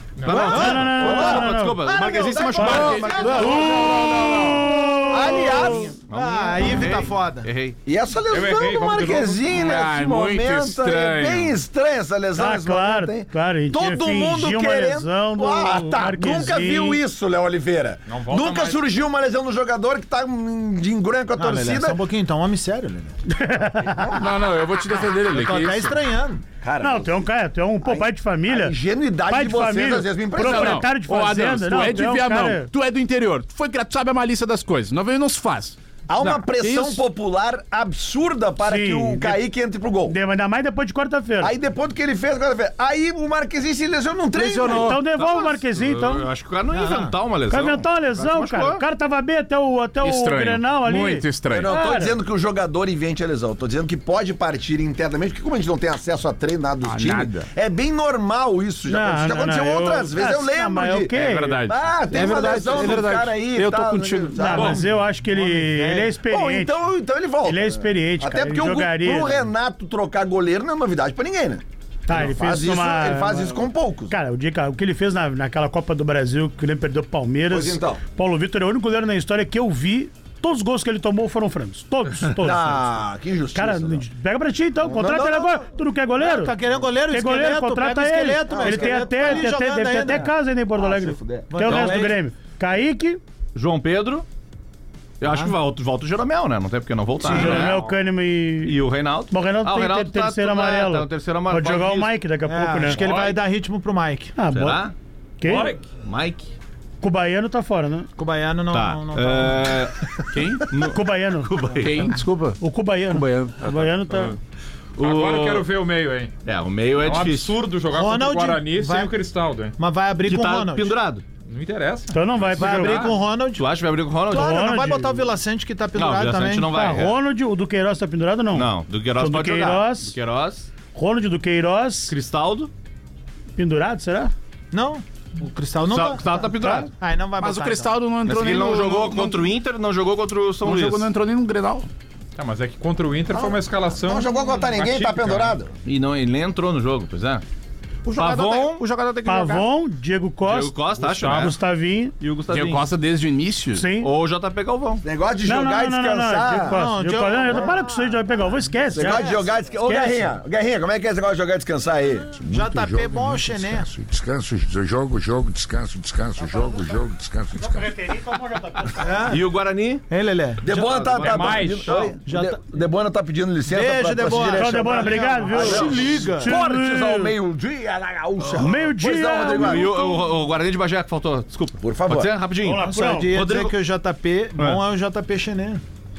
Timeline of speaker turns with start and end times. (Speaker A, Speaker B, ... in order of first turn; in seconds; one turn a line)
Speaker A: 0.2-0.8
Speaker B: 0.2-3.5
Speaker C: 0.3-1.8
Speaker D: 0.3-0.8
Speaker E: 0.9-4.3
Speaker D: 2.1-3.4
Speaker F: 2.6-4.8
Speaker C: 2.6-5.8
Speaker E: 5.1-5.9
Speaker B: 6.1-7.8
Speaker D: 6.1-7.5
Speaker E: 7.8-22.0
Speaker A: 8.3-9.6
Speaker F: 9.6-11.6
Speaker C: 12.3-17.0
Speaker A: 18.1-18.8
Speaker D: 21.4-23.1
Speaker C: 23.3-24.1
Speaker E: 23.9-24.2
Speaker F: 24.1-25.9
Speaker D: 25.3-26.4
Speaker E: 26.6-27.1
Speaker C: 26.8-28.8
Speaker E: 27.8-30.9
Speaker C: 29.3-32.7
Speaker F: 30.4-37.0
Speaker E: 36.1-40.1
Speaker C: 38.6-39.4
Speaker C: 40.1-41.5
Speaker E: 41.4-45.0
Speaker F: 44.3-45.0
Speaker C: 44.6-46.2
Speaker B: 45.1-48.8
Speaker D: 46.7-47.1
Speaker C: 47.5-52.1
Speaker F: 50.0-51.7
Speaker E: 51.5-61.1
Speaker F: 56.8-57.5
Speaker C: 58.9-61.6
Speaker F: 61.1-64.7
Speaker E: 61.6-64.9
Speaker C: 64.4-66.8
Speaker A: 64.6-64.9
Speaker D: 65.2-66.1
Speaker E: 66.2-74.1
Speaker C: 67.4-69.5
Speaker C: 72.1-83.0
Speaker E: 77.5-78.0
Speaker E: 82.4-84.0
Speaker C: 83.5-86.5
Speaker E: 84.8-85.7
Speaker D: 86.2-90.3
Speaker C: 87.1-93.2
Speaker E: 88.5-89.5
Speaker E: 90.8-92.1
Speaker D: 91.5-92.2
Speaker B: 93.5-94.2
Speaker B: 95.2-97.8
Speaker D: 95.2-95.5
Speaker D: 97.2-97.6
Speaker C: 97.2-98.7
Speaker B: 98.6-102.2
Speaker C: 99.3-103.0
Speaker D: 102.5-104.3
Speaker B: 103.0-103.3
Speaker A: 103.0-103.3
Speaker C: 104.3-104.8
Speaker B: 104.5-104.9
Speaker C: 105.4-105.7
Speaker A: 105.4-105.9
Speaker B: 106.0-106.5
Speaker C: 107.0-108.1
Speaker D: 108.2-109.8
Speaker B: 108.7-112.1
Speaker F: 110.3-110.7
Speaker C: 110.8-111.6
Speaker F: 111.8-114.3
Speaker C: 112.6-114.3
Speaker B: 115.0-115.7
Speaker A: 115.0-116.3
Speaker B: 116.4-117.6
Speaker A: 117.0-119.7
Speaker D: 117.9-119.1
Speaker D: 119.8-121.0
Speaker B: 120.2-121.2
Speaker A: 121.4-123.2
Speaker C: 122.1-123.1
Speaker D: 122.6-123.6
Speaker B: 123.5-124.6
Speaker D: 124.3-126.7
Speaker C: 124.3-125.2
Speaker B: 125.9-127.1
Speaker C: 126.7-130.1
Speaker B: 128.5-130.7
Speaker C: 130.9-132.1
Speaker B: 132.1-132.7
Speaker C: 133.6-134.3
Speaker D: 134.7-138.0
Speaker B: 135.9-136.9
Speaker C: 136.6-136.9
Speaker F: 137.4-139.4
Speaker B: 138.2-141.1
Speaker F: 140.6-141.9
Speaker A: 142.3-145.6
Speaker E: 143.3-145.7
Speaker B: 145.8-147.4
Speaker B: 148.1-149.6
Speaker F: 148.2-148.8
Speaker C: 149.2-152.1
Speaker B: 150.4-151.5
Speaker A: 151.0-151.5
Speaker B: 152.2-152.9
Speaker F: 152.5-153.9
Speaker C: 153.7-154.1
Speaker B: 154.0-155.0
Speaker E: 155.0-156.8
Speaker C: 155.4-159.3
Speaker D: 156.7-158.2
Speaker E: 158.9-162.3
Speaker D: 158.9-159.4
Speaker C: 159.8-160.3
Speaker G: 162.4-168.0
Speaker D: 162.5-163.9
Speaker C: 167.6-169.1
Speaker D: 169.0-169.4
Speaker B: 169.3-170.1
Speaker D: 170.1-171.0
Speaker E: 170.6-180.0
Speaker B: 170.7-172.1
Speaker A: 171.2-172.1
Speaker D: 172.2-172.6
Speaker D: 173.7-176.5
Speaker C: 174.5-177.3
Speaker B: 178.4-178.7
Speaker C: 178.6-180.2
Speaker B: 179.5-183.8
Speaker E: 181.8-182.3
Speaker C: 182.6-183.4
Speaker D: 182.8-185.8